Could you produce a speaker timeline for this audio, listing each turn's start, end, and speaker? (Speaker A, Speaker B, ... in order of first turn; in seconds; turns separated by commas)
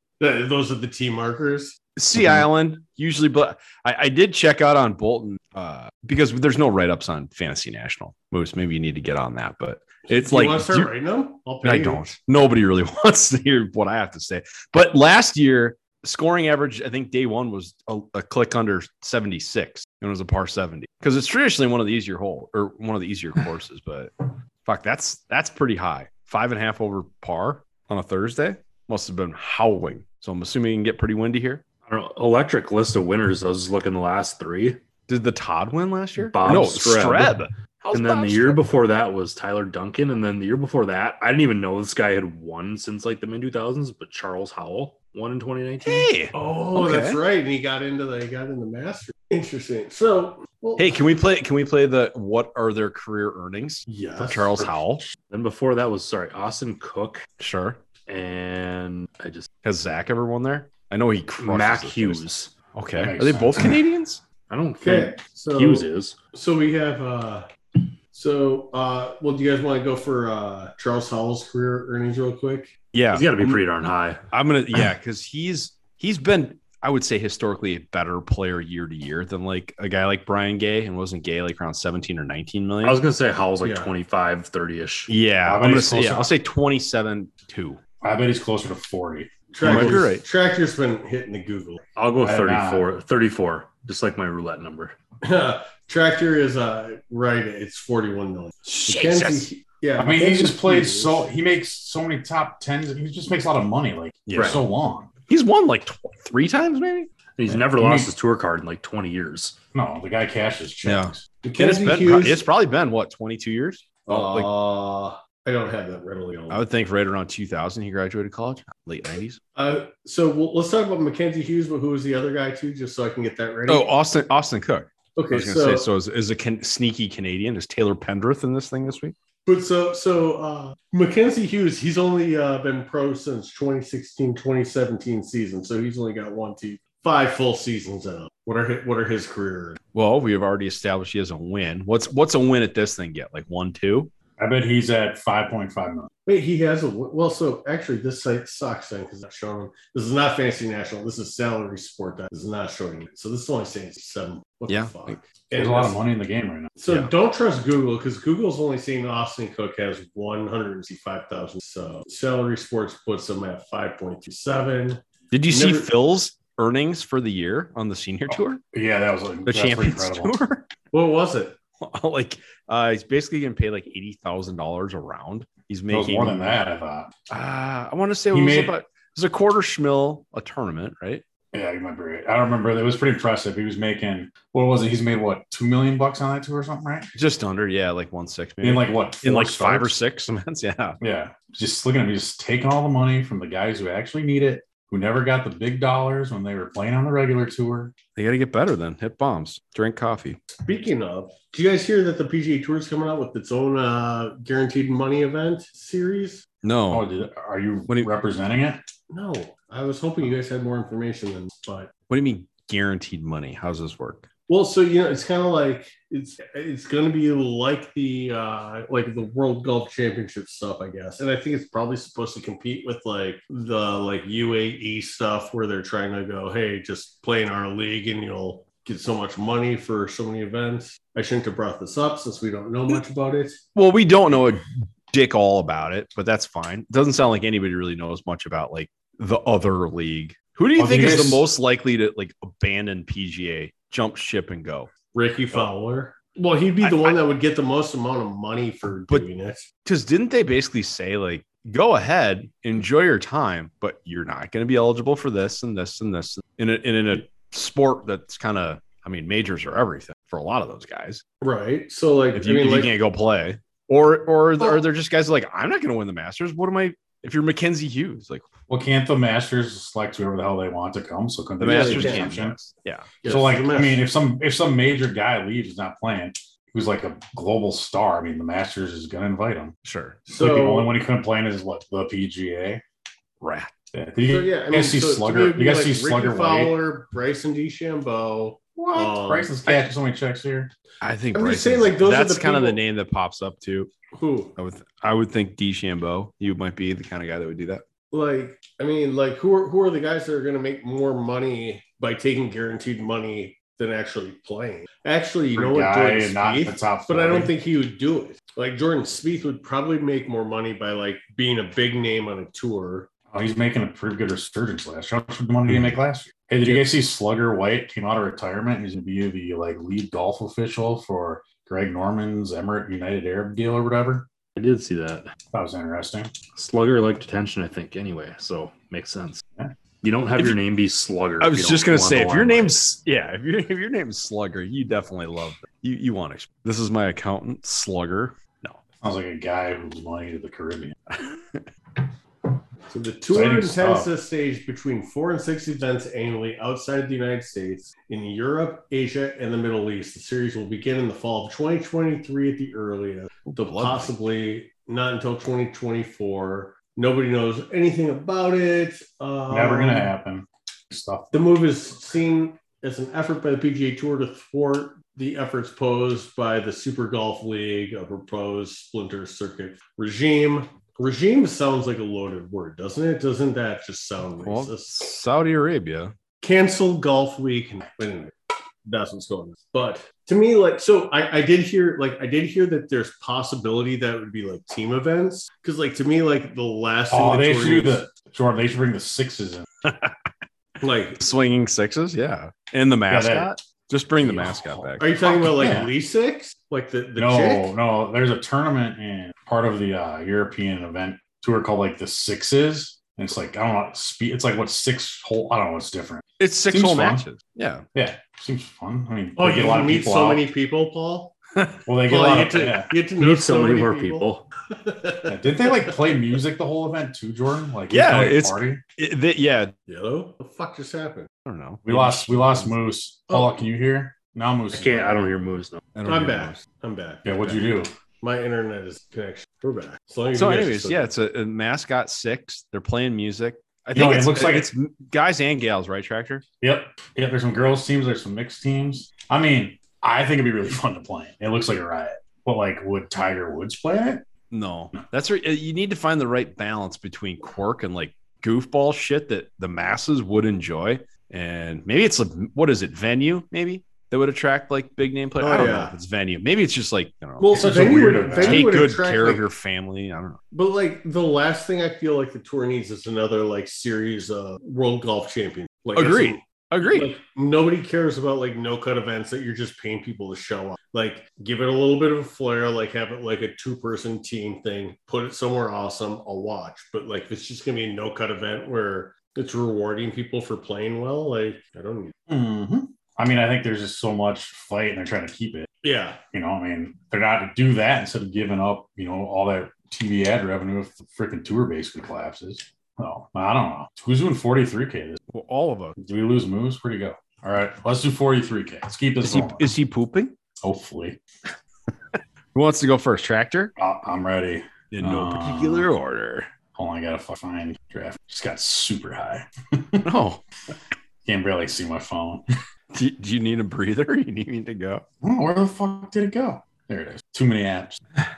Speaker A: 0.2-1.8, Speaker B: 2.0-10.9, Speaker C: 2.2-2.5, Speaker A: 10.1-12.0, Speaker B: 11.6-31.6, Speaker D: 31.9-34.8, Speaker B: 35.1-38.6, Speaker D: 36.2-46.1, Speaker B: 45.8-47.2, Speaker A: 46.3-51.0, Speaker B: 50.8-55.0, Speaker A: 53.9-54.8, Speaker D: 55.3-57.3, Speaker B: 57.4-57.8, Speaker D: 58.1-59.5, Speaker B: 59.6-64.2, Speaker D: 61.4-62.5, Speaker C: 63.0-63.8, Speaker D: 64.5-66.2, Speaker A: 64.8-72.7, Speaker B: 72.9-73.6, Speaker D: 73.1-74.2, Speaker B: 74.3-83.0, Speaker D: 82.8-85.1, Speaker A: 83.6-83.9, Speaker B: 85.1-87.8, Speaker C: 85.5-86.3, Speaker C: 88.0-90.0, Speaker A: 89.5-91.8, Speaker B: 89.6-90.2, Speaker D: 92.0-95.0, Speaker C: 92.2-92.9, Speaker A: 95.2-101.2, Speaker B: 98.7-99.5, Speaker C: 100.0-105.1, Speaker B: 104.3-104.6, Speaker D: 104.3-104.6, Speaker B: 105.3-107.1, Speaker D: 107.3-109.6, Speaker C: 107.5-108.1, Speaker C: 109.7-111.2, Speaker B: 110.8-114.5, Speaker A: 111.4-112.4, Speaker A: 114.1-116.6, Speaker B: 116.5-119.4, Speaker A: 119.6-123.9, Speaker B: 123.7-129.2, Speaker A: 125.2-125.9, Speaker A: 129.5-139.8, Speaker B: 139.9-144.1, Speaker C: 144.4-146.1, Speaker A: 146.3-156.0, Speaker B: 154.7-155.2, Speaker C: 155.6-156.7, Speaker A: 156.8-165.9, Speaker B: 165.3-168.6, Speaker C: 168.3-170.3, Speaker B: 169.5-170.7, Speaker A: 170.9-171.6, Speaker B: 171.8-176.6, Speaker C: 175.9-177.1, Speaker B: 177.3-181.2, Speaker C: 178.3-178.7, Speaker C: 181.5-187.1, Speaker B: 187.2-191.0, Speaker C: 188.6-189.9, Speaker C: 191.0-197.9, Speaker B: 198.2-200.4, Speaker A: 200.6-206.5, Speaker B: 206.6-207.1, Speaker C: 206.9-208.8, Speaker A: 209.1-211.9, Speaker B: 212.1-214.3, Speaker A: 214.5-233.6, Speaker B: 233.8-244.9, Speaker C: 240.8-241.5, Speaker A: 245.1-249.7, Speaker B: 246.8-247.2, Speaker B: 249.8-261.2, Speaker A: 261.4-262.9, Speaker B: 262.4-268.4, Speaker C: 268.7-272.6, Speaker B: 271.6-273.1, Speaker A: 271.7-272.3, Speaker A: 273.2-274.1, Speaker C: 273.2-279.8, Speaker B: 279.8-280.2, Speaker A: 280.3-280.9, Speaker C: 280.4-282.8, Speaker B: 283.4-283.7, Speaker C: 283.9-286.8, Speaker A: 284.3-289.5, Speaker C: 288.8-290.7, Speaker B: 291.0-293.9, Speaker A: 291.3-292.8, Speaker A: 294.1-294.5, Speaker B: 294.6-297.8, Speaker A: 298.1-313.1, Speaker C: 305.6-307.5, Speaker C: 313.3-324.3, Speaker B: 315.7-315.9, Speaker D: 324.6-325.3, Speaker C: 325.5-326.3, Speaker D: 326.6-329.4, Speaker D: 330.0-332.8, Speaker B: 331.4-338.8, Speaker C: 339.0-341.0, Speaker B: 341.1-341.7, Speaker A: 342.9-360.1, Speaker C: 343.3-344.1, Speaker B: 353.6-354.1, Speaker C: 359.5-361.5, Speaker A: 361.3-375.1, Speaker B: 374.4-376.1, Speaker A: 376.4-388.1, Speaker C: 387.1-389.6, Speaker B: 389.8-390.3, Speaker A: 390.8-391.2, Speaker B: 391.2-395.1, Speaker C: 393.1-393.5, Speaker C: 394.2-395.9, Speaker A: 395.0-397.7, Speaker C: 397.2-407.3, Speaker B: 406.4-407.9, Speaker C: 407.9-410.4, Speaker A: 409.4-411.4, Speaker C: 411.9-412.9, Speaker A: 412.1-416.0, Speaker D: 413.2-414.5, Speaker C: 415.3-418.8, Speaker B: 417.9-419.7, Speaker A: 419.9-421.3, Speaker B: 421.5-422.7, Speaker C: 421.9-425.2, Speaker D: 424.7-425.8, Speaker B: 425.9-426.6, Speaker A: 426.1-427.6, Speaker C: 427.2-427.9, Speaker A: 428.2-431.1, Speaker B: 430.3-436.4, Speaker C: 433.9-434.7, Speaker C: 436.6-444.3, Speaker B: 444.5-460.4, Speaker A: 455.4-455.9, Speaker A: 457.4-459.4, Speaker C: 457.5-458.7, Speaker A: 460.5-482.1, Speaker B: 465.9-467.1, Speaker C: 482.3-485.7, Speaker A: 485.8-486.2, Speaker C: 486.3-495.2, Speaker B: 495.3-496.0, Speaker C: 496.0-499.7, Speaker B: 499.2-500.4, Speaker C: 500.6-501.2, Speaker B: 502.1-503.7, Speaker C: 503.8-505.9, Speaker B: 504.9-506.5, Speaker C: 506.8-510.1, Speaker B: 510.0-510.4, Speaker C: 511.2-512.4, Speaker B: 512.9-515.0, Speaker C: 515.2-518.0